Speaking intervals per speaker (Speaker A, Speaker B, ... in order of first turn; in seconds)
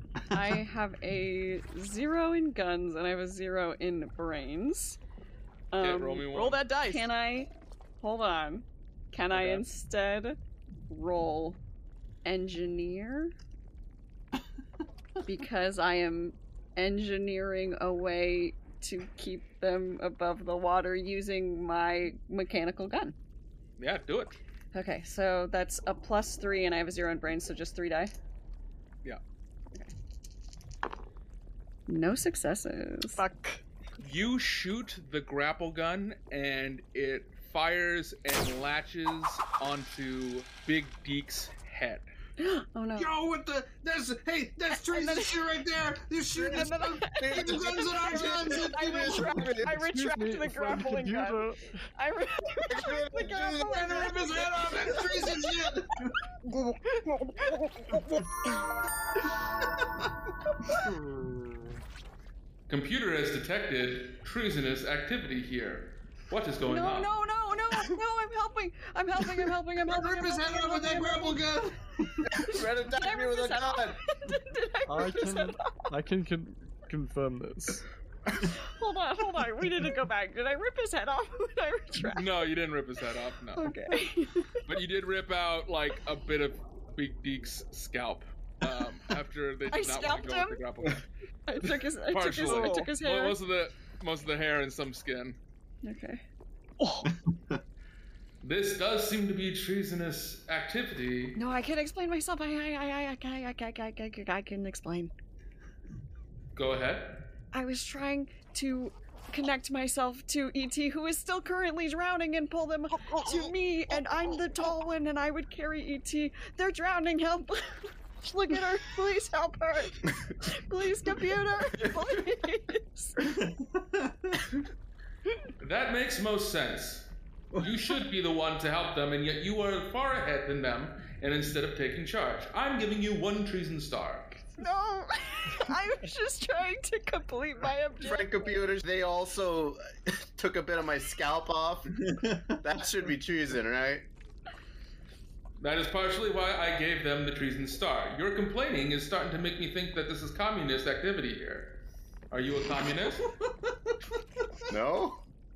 Speaker A: 0.3-5.0, 5.7-6.3, 6.8-7.5, 8.0-10.4, 10.9-11.6, 12.2-13.3, 15.2-23.1, 24.7-28.1, 31.9-33.2, 42.4-43.1, 45.0-45.3, 46.5-55.3, 57.5-58.0, 66.7-71.5, 72.5-75.8, 78.6-82.4, 83.6-84.6, 89.7-90.6, 91.5-93.4, 95.8-96.2, 101.4-105.1, 107.5-123.2, 134.6-138.6
Speaker B: 5.8-6.6, 9.3-9.6, 23.8-24.4, 34.0-42.0, 62.7-67.1, 82.1-83.7, 84.7-91.0, 92.1-95.4, 98.4-101.4, 106.5-107.2, 125.6-134.4, 145.6-151.8, 152.3-153.2
Speaker C: 6.3-7.0, 33.2-33.6, 46.6-47.4
Speaker D: 42.9-49.7, 53.2-56.1, 60.8-61.8, 69.8-72.3, 97.3-97.6, 123.4-124.4, 142.0-142.6, 153.4-153.7
Speaker E: 48.9-49.5, 52.7-53.8, 72.3-74.0, 138.0-144.1, 154.7-155.2
Speaker F: 49.8-51.9, 74.9-77.8, 92.5-92.8